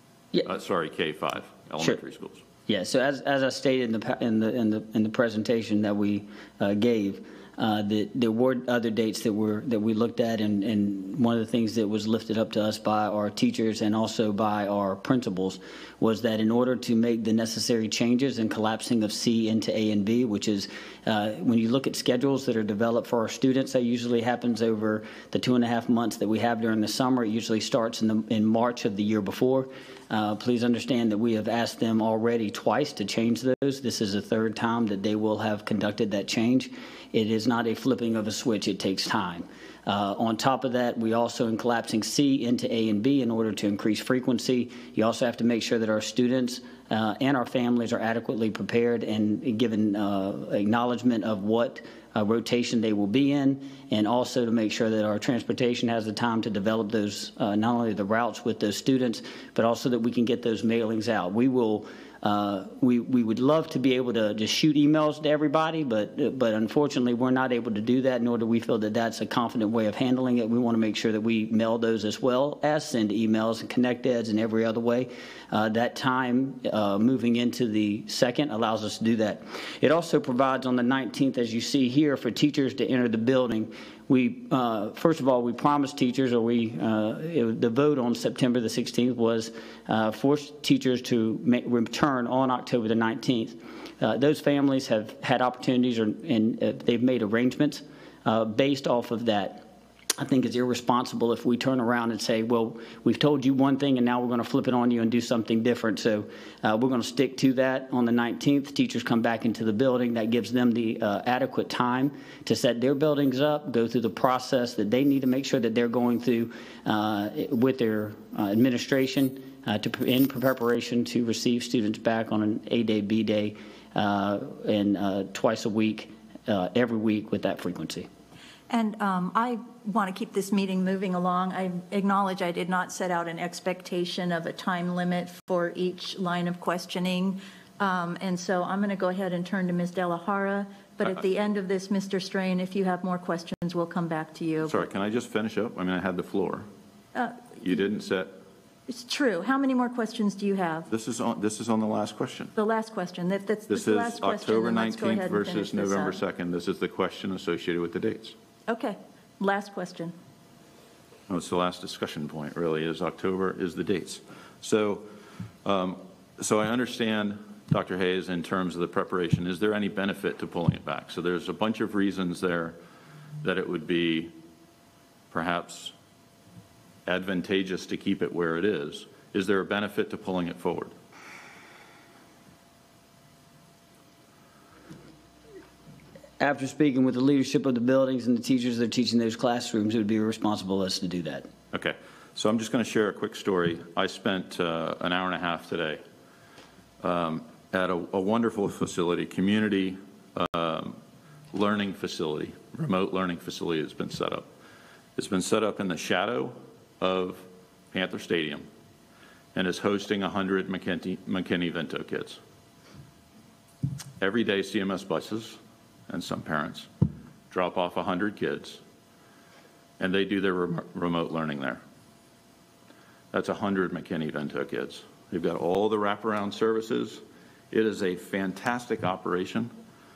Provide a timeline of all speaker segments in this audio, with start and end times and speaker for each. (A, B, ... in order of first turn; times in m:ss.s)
0:00.4-0:02.4 A
0:02.7-1:39.7 B
1:40.2-2:08.1 B
2:08.7-2:24.8 C
2:24.6-2:26.7 A
2:27.1-2:27.6 C
2:27.6-2:28.4 A
2:28.9-2:30.9 C
2:30.9-2:32.5 A
2:32.6-2:36.2 C
2:33.7-2:38.4 A
2:38.7-2:40.1 C
2:41.3-2:45.1 A
2:45.6-2:52.8 A
2:53.4-2:54.3 A
2:55.3-2:55.9 A
2:57.0-3:00.9 A
3:06.4-3:11.5 B
3:11.7-3:16.0 A
3:17.0-3:21.0 A
3:21.5-3:24.5 A
3:25.2-3:28.7 A
3:29.5-3:32.4 A
3:34.2-3:36.9 A
3:37.5-3:38.8 A
3:40.0-3:41.8 A
3:43.3-3:49.7 A